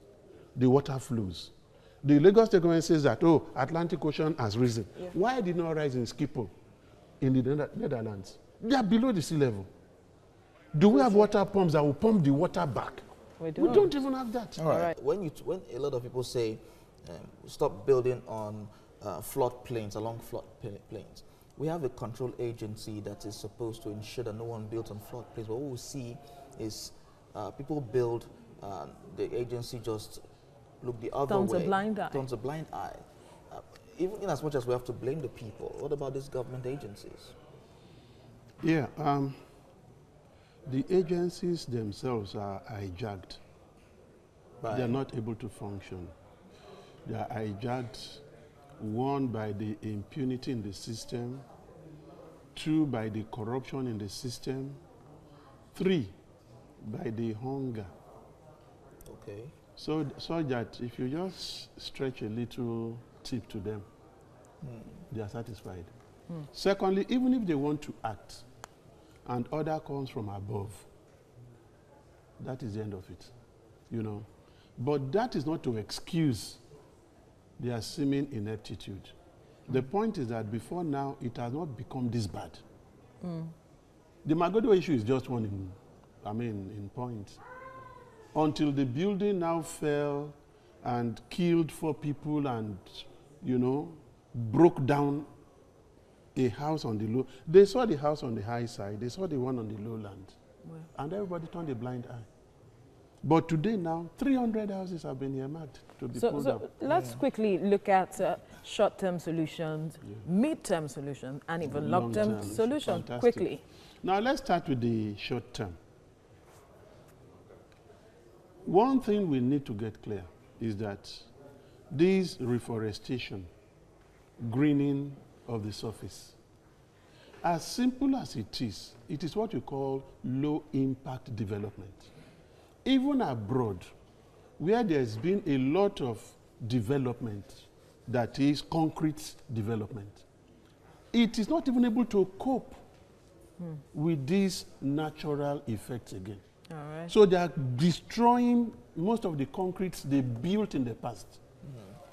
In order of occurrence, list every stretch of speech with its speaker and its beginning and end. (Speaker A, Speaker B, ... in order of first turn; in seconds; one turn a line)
Speaker A: 0.5-6.5
Speaker A: 7.2-9.7
Speaker A: 10.7-13.0
Speaker B: 13.4-13.9
Speaker A: 13.6-14.6
Speaker C: 14.6-30.2
Speaker B: 14.6-14.9
Speaker C: 30.8-37.3
Speaker B: 31.3-32.2
Speaker A: 38.6-39.4
Speaker A: 40.6-43.4
Speaker C: 44.6-45.0
Speaker A: 44.7-46.1
Speaker A: 47.0-48.2
Speaker A: 48.8-51.4
Speaker A: 52.5-54.8
Speaker A: 55.7-56.1
Speaker A: 56.8-57.9
Speaker C: 59.0-59.5
Speaker A: 59.8-63.9
Speaker C: 64.6-65.0
Speaker A: 65.1-65.9
Speaker A: 66.5-68.4
Speaker A: 69.2-70.9
Speaker A: 72.4-73.3
Speaker A: 73.9-74.3
Speaker A: 74.8-76.6
Speaker A: 77.6-79.1
Speaker A: 79.7-82.6
Speaker B: 83.2-83.5
Speaker A: 84.2-87.4
Speaker A: 88.3-95.3
Speaker A: 96.3-100.3
Speaker A: 100.9-102.3
Speaker A: 103.2-106.7
Speaker B: 106.1-113.6
Speaker C: 106.9-107.2
Speaker A: 111.6-113.5
Speaker A: 114.0-115.8
Speaker A: 118.6-121.3
Speaker A: 121.9-123.5
Speaker A: 124.4-126.4
Speaker A: 127.4-132.1
Speaker A: 132.8-133.9
Speaker A: 134.6-140.2
Speaker A: 141.1-142.8
Speaker A: 143.9-146.4
Speaker B: 146.7-147.1
Speaker A: 147.1-151.4
Speaker C: 151.6-152.0